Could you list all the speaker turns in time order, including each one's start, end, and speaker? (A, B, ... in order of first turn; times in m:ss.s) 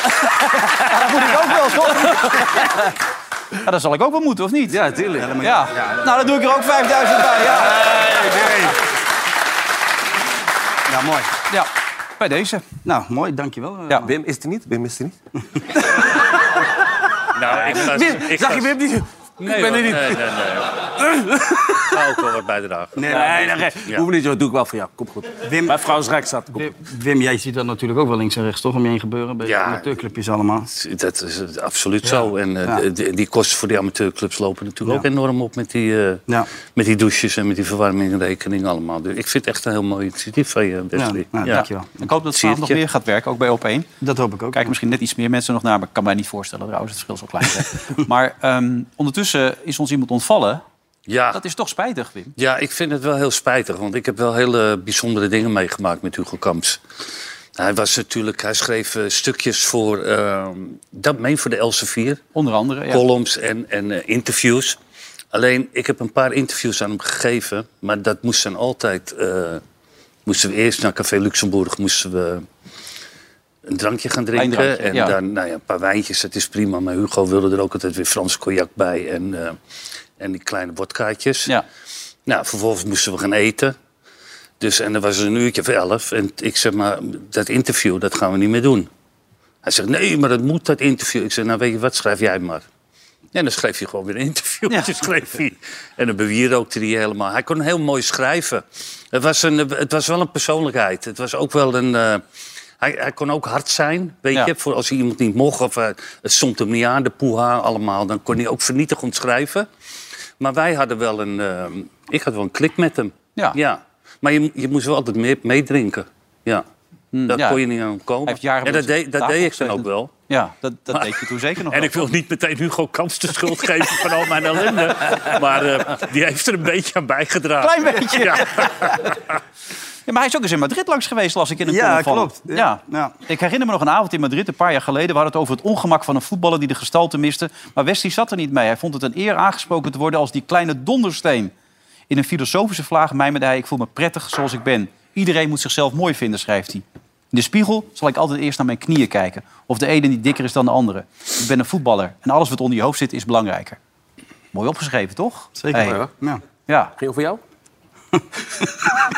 0:00.7-0:02.4 A
0:03.6-0:04.8 A
0:04.7-0:05.3 B
0:05.2-0:06.0 C
0:05.4-0:07.9 A
0:07.7-0:08.8 C
0:07.8-0:08.5 B
0:10.9-0:11.3 C
0:11.5-0:12.6 A
0:12.8-0:14.1 C
0:14.0-0:15.2 B
0:15.8-0:16.3 B
0:17.4-0:18.7 D
0:17.5-0:20.5 B
0:19.4-0:20.7 D
0:21.0-0:21.9 B
0:21.9-0:23.2 D
0:23.0-0:23.7 C
0:23.1-0:26.7 B
0:25.4-0:25.8 C
0:26.6-0:30.7 C
0:29.4-0:29.9 D
0:30.7-0:41.6 D
0:32.0-0:32.8 C
0:41.0-0:42.0 C
0:41.5-0:43.9 A
0:44.0-0:44.7 C
0:44.5-0:50.6 A
0:51.1-0:51.4 D
0:51.3-0:52.4 A
0:52.4-0:56.8 D
0:57.6-1:02.2 D
1:02.4-1:03.1 A
1:02.9-1:04.8 D
1:05.3-1:09.6 D
1:10.3-1:12.5 D
1:13.7-1:19.6 D
1:14.4-1:15.2 A
1:20.2-1:21.6 D
1:22.3-1:23.8 D
1:24.6-1:28.9 D
1:29.6-1:32.6 D
1:33.3-1:42.2 D
1:42.8-1:49.7 D
1:50.4-1:56.6 D
1:57.1-1:57.6 A
1:57.3-2:00.1 D
1:58.2-2:02.1 A
2:00.9-2:09.3 D
2:07.6-2:08.7 A
2:10.1-2:21.5 A
2:11.6-2:13.2 C
2:22.1-2:33.8 A
2:34.5-2:36.0 A
2:35.6-2:36.4 C
2:35.8-2:36.1 B
2:36.7-2:36.9 A
2:37.0-2:37.4 B
2:38.2-2:38.7 C